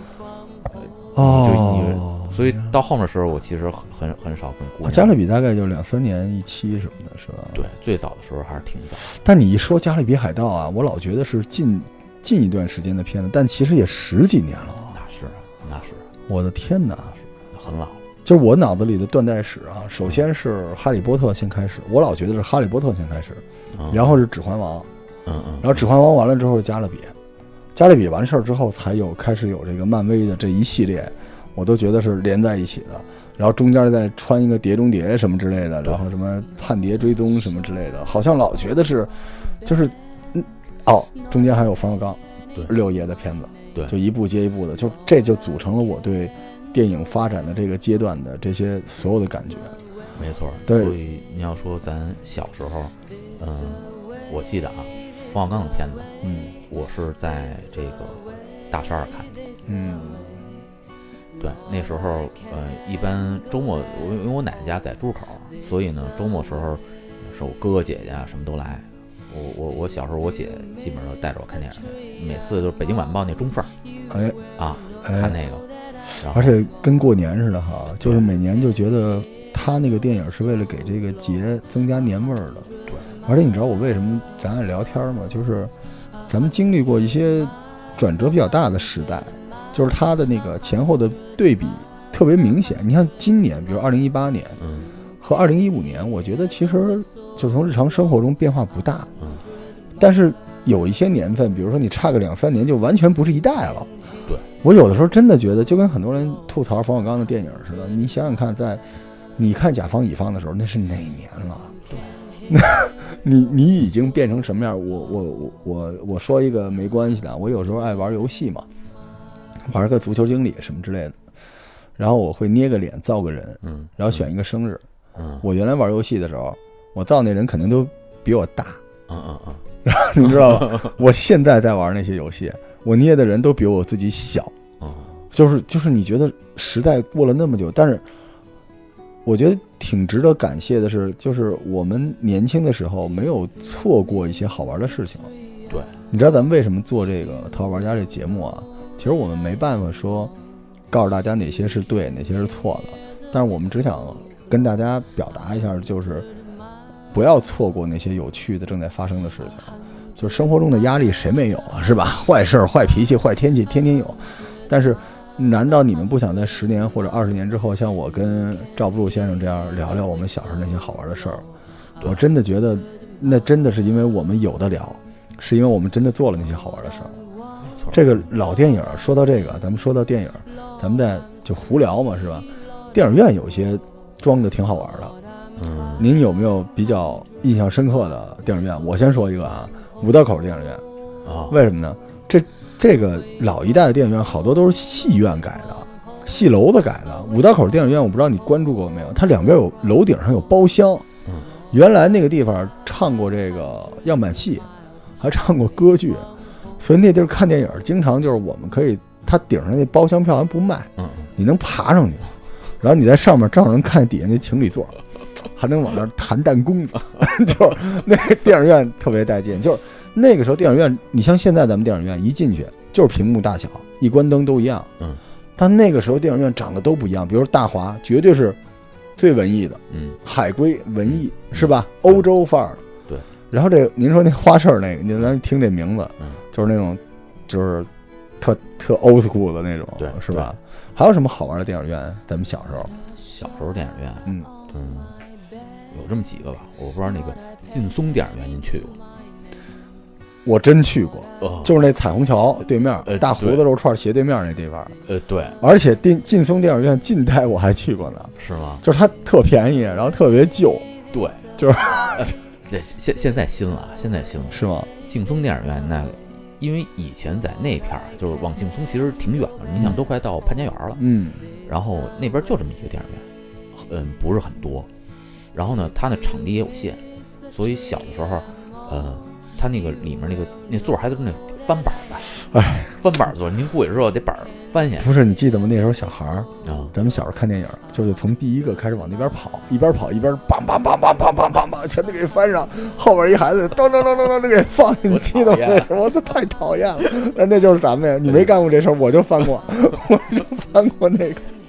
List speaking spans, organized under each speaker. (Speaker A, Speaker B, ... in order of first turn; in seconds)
Speaker A: 0.7-5.1, 7.5-9.1, 14.9-16.1, 17.5-18.0, 23.7-24.1, 25.2-25.9, 50.1-56.1, 56.7-59.4, 61.4-73.7, 74.6-75.6, 76.2-76.5, 78.0-78.3, 94.6-94.9, 99.2-99.4, 123.6-124.2, 125.1-125.4, 129.1-129.6, 130.5-130.9, 134.8-135.2, 177.7-178.2, 185.6-186.1, 191.2-191.6, 211.0-211.3, 229.9-230.2, 231.5-232.2, 240.0-240.5, 243.2-245.2, 245.9-249.0, 251.4-251.8, 253.0-253.6, 255.1-255.6, 258.4-258.8, 261.1-261.4, 262.1-271.0, 271.6-274.9, 275.5-282.3, 282.9-285.1, 286.6-286.9, 295.1-296.0, 298.2-298.5
Speaker B: 1.1-2.7, 4.8-7.6, 9.1-15.0, 16.3-17.1, 18.2-24.9, 25.6-27.1, 27.7-49.8, 50.6-51.0, 56.2-56.5, 59.7-60.5, 74.1-74.4, 75.0-75.4, 76.1-82.7, 83.2-85.7, 86.3-94.6, 95.2-99.1, 100.0-103.9, 104.6-108.8, 109.4-111.7, 112.5-118.7, 119.6-121.2, 122.0-124.8, 125.4-128.8, 129.8-134.5, 135.3-138.1, 139.2-145.3, 146.1-150.3, 150.9-156.3, 157.1-171.4, 172.0-177.2, 177.9-185.2, 186.0-190.8, 191.5-201.0, 201.7-204.7, 205.2-206.3, 206.8-224.9, 225.6-228.6, 229.2-232.8, 233.5-242.9, 250.4-255.0, 255.6-260.9, 261.6-262.4, 264.5-264.9, 271.0-271.5, 282.3-283.0, 285.0-301.5